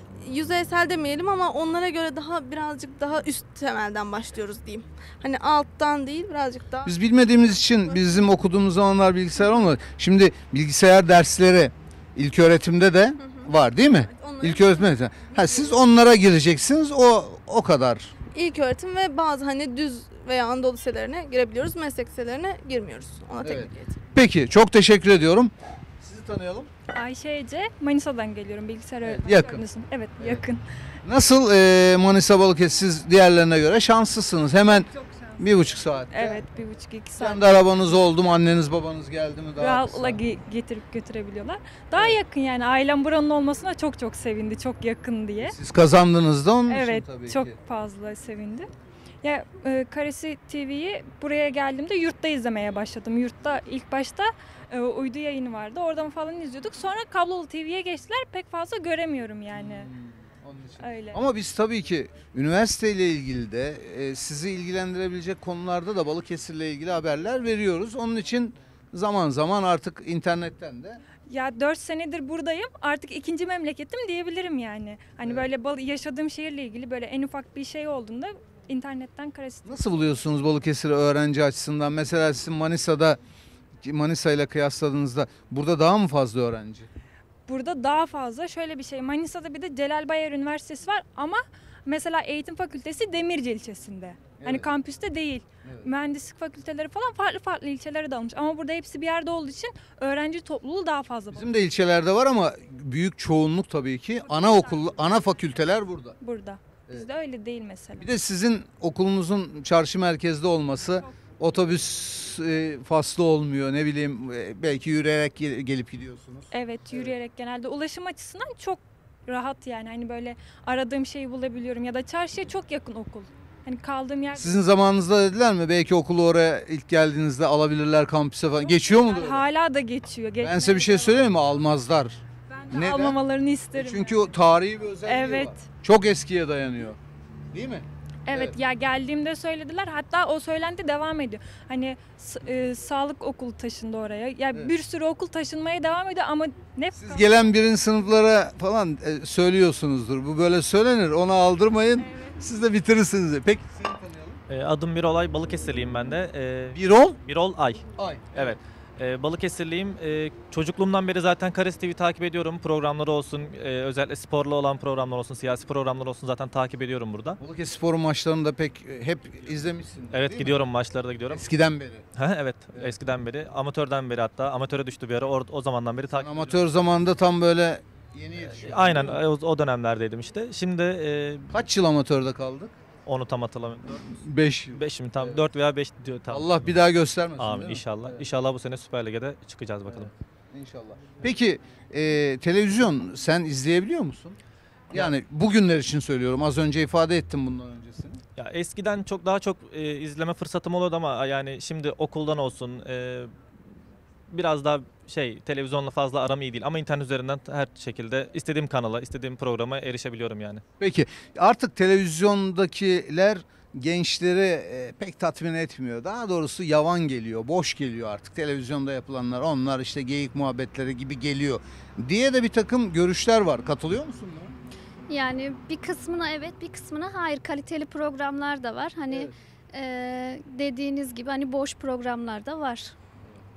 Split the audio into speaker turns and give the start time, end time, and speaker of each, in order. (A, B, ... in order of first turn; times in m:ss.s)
0:00.2-0:08.0 A
0:06.8-0:18.1 B
0:13.2-0:15.9 A
0:18.3-0:23.9 A
0:23.4-0:26.7 B
0:26.9-0:30.6 C
0:29.0-0:29.6 B
0:31.0-0:36.4 B
0:36.1-0:37.4 C
0:37.2-0:40.2 B
0:39.6-0:45.5 C
0:45.4-0:47.5 B
0:46.7-0:48.7 C
0:49.2-0:59.9 C
0:59.5-1:11.0 B
1:00.8-1:01.2 C
1:11.3-1:19.8 C
1:19.6-1:23.2 B
1:23.8-1:26.9 B
1:27.5-1:41.5 C
1:34.4-1:34.6 B
1:41.3-1:46.2 B
1:44.3-1:45.2 C
1:46.2-1:48.1 C
1:48.0-1:57.1 B
1:56.5-2:04.6 C
2:04.3-2:09.4 B
2:08.7-2:11.2 C
2:10.4-2:12.2 B
2:12.5-2:14.2 C
2:12.7-2:13.2 B
2:13.7-2:17.0 B
2:15.0-2:15.6 C
2:17.5-2:18.5 B
2:18.3-2:27.5 C
2:27.0-2:34.4 B
2:34.5-2:47.4 D
2:36.7-2:37.2 B
2:38.0-2:38.6 B
2:47.4-2:50.7 B
2:50.1-2:51.5 D
2:51.3-2:52.0 B
2:52.2-2:56.5 D
2:56.1-2:59.2 B
2:58.5-3:01.5 D
3:01.5-3:02.7 B
3:03.0-3:04.0 D
3:04.1-3:05.4 B
3:04.7-3:06.6 D
3:06.3-3:08.3 B
3:07.4-3:10.1 D
3:09.8-3:14.4 B
3:14.9-3:18.2 B
3:18.4-3:23.3 D
3:24.3-3:30.6 D
3:30.8-3:44.5 B
3:45.1-3:52.9 E